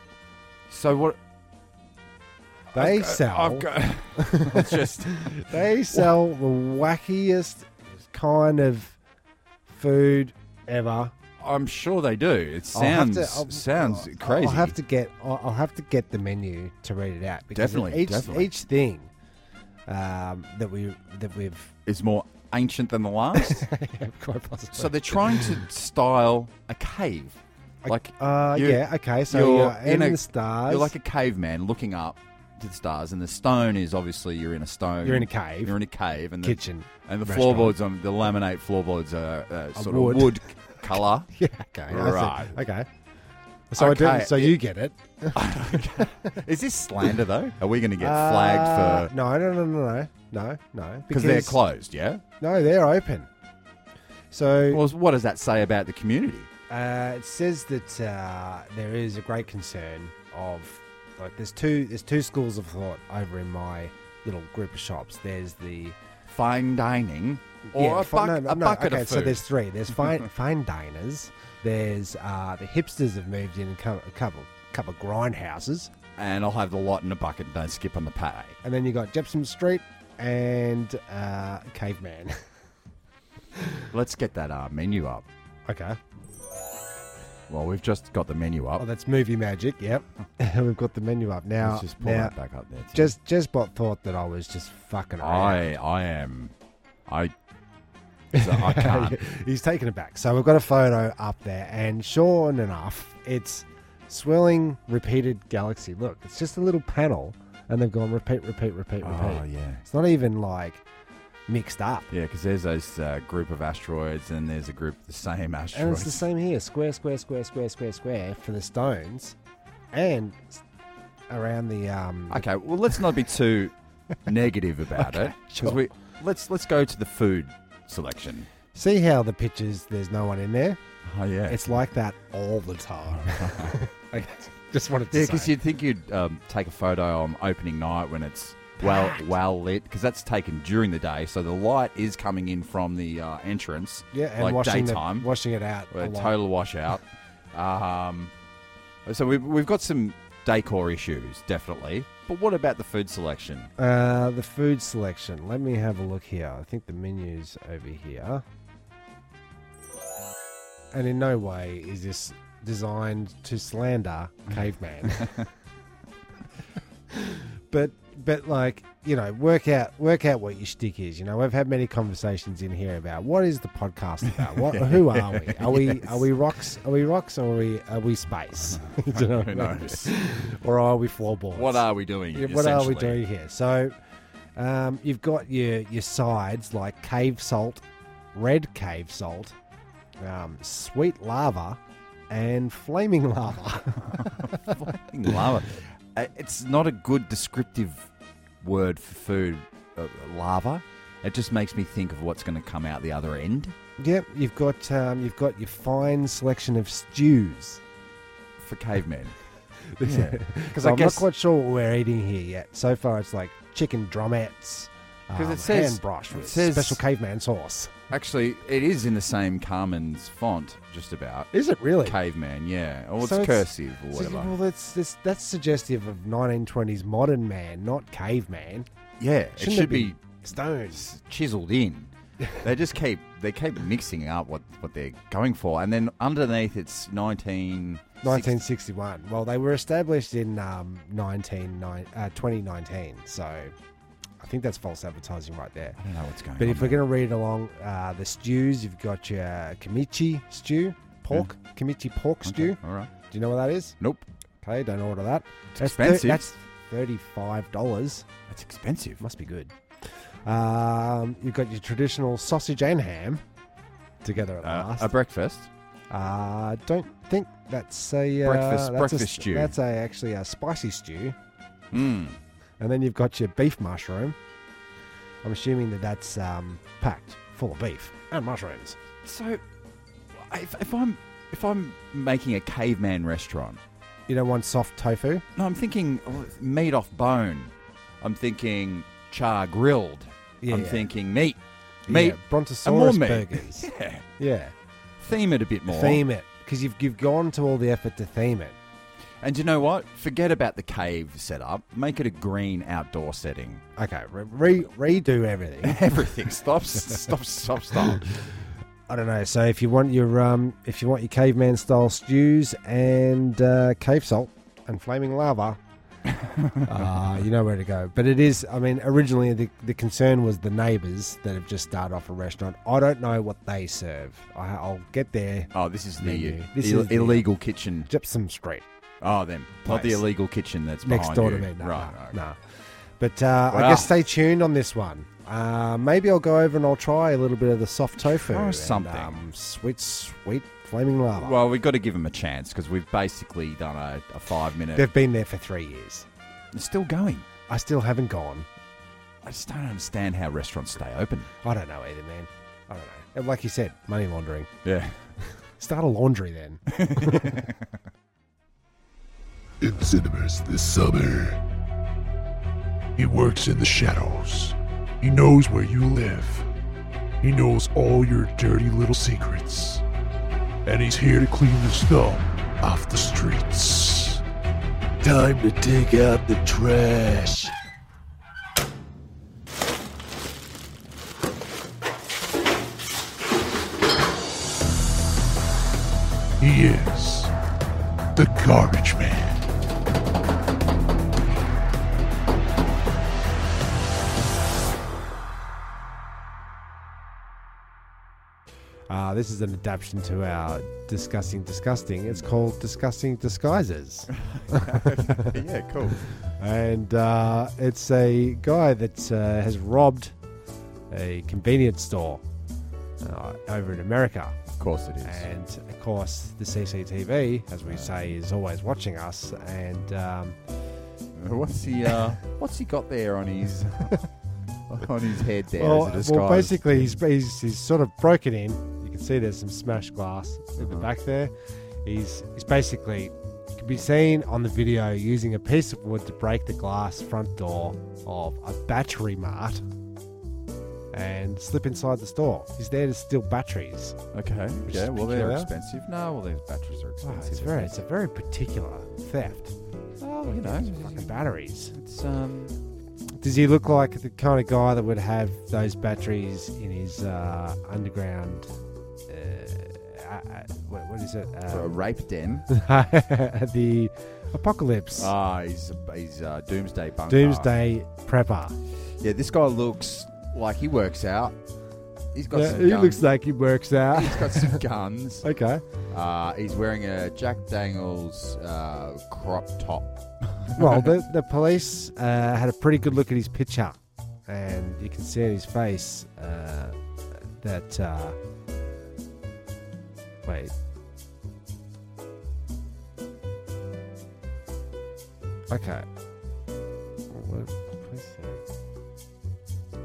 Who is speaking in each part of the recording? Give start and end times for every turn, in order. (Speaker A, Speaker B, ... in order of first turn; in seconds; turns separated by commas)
Speaker A: 0.7-1.2, Speaker A: 2.7-6.1, Speaker B: 2.7-9.0, Speaker B: 9.7-11.1, Speaker A: 11.4-14.8, Speaker B: 12.7-19.1, Speaker A: 17.5-18.5, Speaker B: 19.9-21.7, Speaker A: 21.9-23.7, Speaker B: 23.3-25.6, Speaker A: 24.7-41.3, Speaker B: 27.8-30.9, Speaker B: 35.0-35.8, Speaker B: 36.4-37.8, Speaker B: 39.8-42.9, Speaker A: 41.9-42.5, Speaker B: 43.7-46.3, Speaker A: 43.8-44.6, Speaker A: 45.3-49.1, Speaker B: 48.0-51.6, Speaker A: 51.1-52.2, Speaker B: 52.4-53.3, Speaker B: 54.3-54.8, Speaker A: 54.7-56.5, Speaker B: 56.7-66.0, Speaker A: 66.3-69.4, Speaker B: 67.7-75.9, Speaker A: 70.0-70.2, Speaker A: 76.2-78.6, Speaker B: 78.6-82.4, Speaker A: 83.9-85.3, Speaker B: 85.7-86.0, Speaker A: 87.5-88.8, Speaker B: 88.8-92.3, Speaker A: 91.6-93.1, Speaker B: 92.9-95.7, Speaker A: 95.2-96.5, Speaker A: 97.1-97.3, Speaker B: 98.3-110.8, Speaker A: 98.3-99.2, Speaker A: 109.0-109.8, Speaker B: 111.5-112.1, Speaker A: 112.1-116.2, Speaker B: 115.7-119.3, Speaker B: 119.9-120.6, Speaker B: 121.3-122.4, Speaker A: 122.3-123.7, Speaker A: 124.2-128.5, Speaker B: 125.0-125.8, Speaker B: 128.7-130.8, Speaker A: 131.0-131.7, Speaker B: 131.5-135.5, Speaker A: 133.2-133.8, Speaker A: 135.1-145.3, Speaker B: 138.8-139.3, Speaker B: 144.1-146.3, Speaker A: 145.9-148.3, Speaker A: 149.1-153.7, Speaker B: 153.8-158.4, Speaker B: 160.9-165.4, Speaker A: 165.1-165.4, Speaker B: 167.1-183.9, Speaker A: 174.3-176.3, Speaker A: 178.7-180.1, Speaker A: 181.5-183.2, Speaker B: 184.6-189.5, Speaker B: 190.2-191.8, Speaker B: 192.3-194.8, Speaker A: 194.1-198.1, Speaker A: 198.6-203.8, Speaker B: 204.0-207.8, Speaker A: 208.6-209.3, Speaker B: 209.9-217.9, Speaker A: 210.0-211.3, Speaker A: 215.3-217.0, Speaker A: 218.1-224.5, Speaker B: 221.5-222.2, Speaker B: 223.2-228.9, Speaker A: 229.2-230.2, Speaker B: 229.6-231.0, Speaker A: 230.9-238.6, Speaker B: 238.2-243.7, Speaker B: 244.4-246.0, Speaker A: 246.0-247.0, Speaker B: 246.6-253.9, Speaker A: 252.4-253.1, Speaker A: 254.0-254.2, Speaker B: 254.6-258.2, Speaker A: 255.7-256.5, Speaker A: 258.5-259.2, Speaker B: 259.2-259.7, Speaker B: 260.4-263.4, Speaker B: 264.2-265.1, Speaker A: 264.6-265.7, Speaker B: 266.1-271.4, Speaker A: 268.4-269.7, Speaker A: 271.9-272.4, Speaker B: 272.8-274.4, Speaker B: 275.4-279.0, Speaker A: 279.2-279.6, Speaker A: 280.3-283.8, Speaker B: 284.3-285.4, Speaker A: 285.5-294.2, Speaker B: 290.6-291.1, Speaker B: 292.1-293.9, Speaker B: 294.4-294.7, Speaker A: 295.2-296.2, Speaker B: 295.9-298.8, Speaker A: 299.4-303.8, Speaker B: 304.0-306.0, Speaker A: 305.8-308.3, Speaker B: 309.1-315.8, Speaker A: 316.3-317.0, Speaker B: 316.8-327.5, Speaker A: 325.7-328.1, Speaker B: 328.1-328.8, Speaker A: 329.2-332.4, Speaker B: 329.8-330.2, Speaker B: 331.0-332.6, Speaker B: 333.2-341.6, Speaker A: 333.7-334.1, Speaker A: 338.2-339.4, Speaker A: 341.3-345.1, Speaker B: 344.9-346.3, Speaker A: 346.7-347.5, Speaker B: 347.7-348.7, Speaker A: 349.4-351.5, Speaker B: 351.6-354.7, Speaker A: 354.8-355.3, Speaker B: 355.4-357.7, Speaker A: 356.9-357.8, Speaker C: 359.8-361.6, Speaker C: 363.2-366.7, Speaker C: 367.4-370.0, Speaker C: 370.8-374.4, Speaker C: 375.2-377.7, Speaker C: 386.6-387.5, Speaker C: 388.3-389.6, Speaker B: 399.1-405.6, Speaker A: 404.3-406.3, Speaker B: 406.2-410.3, Speaker B: 411.1-412.4, Speaker B: 413.2-414.6, Speaker A: 414.8-415.5, Speaker B: 415.2-420.6, Speaker A: 417.8-418.2, Speaker A: 421.4-424.3, Speaker A: 424.9-427.1, Speaker B: 425.8-431.5, Speaker A: 430.8-431.1, Speaker B: 432.0-439.8, Speaker B: 441.1-444.2, Speaker A: 444.3-447.9, Speaker B: 444.8-445.7, Speaker B: 447.2-449.7, Speaker A: 450.2-451.4, Speaker B: 450.4-451.9, Speaker A: 451.9-452.8, Speaker B: 453.4-458.7, Speaker B: 459.3-462.0, Speaker A: 461.7-462.6, Speaker B: 462.7-465.3, Speaker A: 465.1-467.7, Speaker B: 467.3-468.8, Speaker A: 469.2-471.6, Speaker A: 472.3-473.2, Speaker B: 472.5-474.8, Speaker A: 474.1-475.4, Speaker B: 475.4-475.8, Speaker A: 476.1-481.1, Speaker B: 480.8-488.4, Speaker B: 490.4-490.7, Speaker B: 495.7-496.1, Speaker B: 497.3-498.6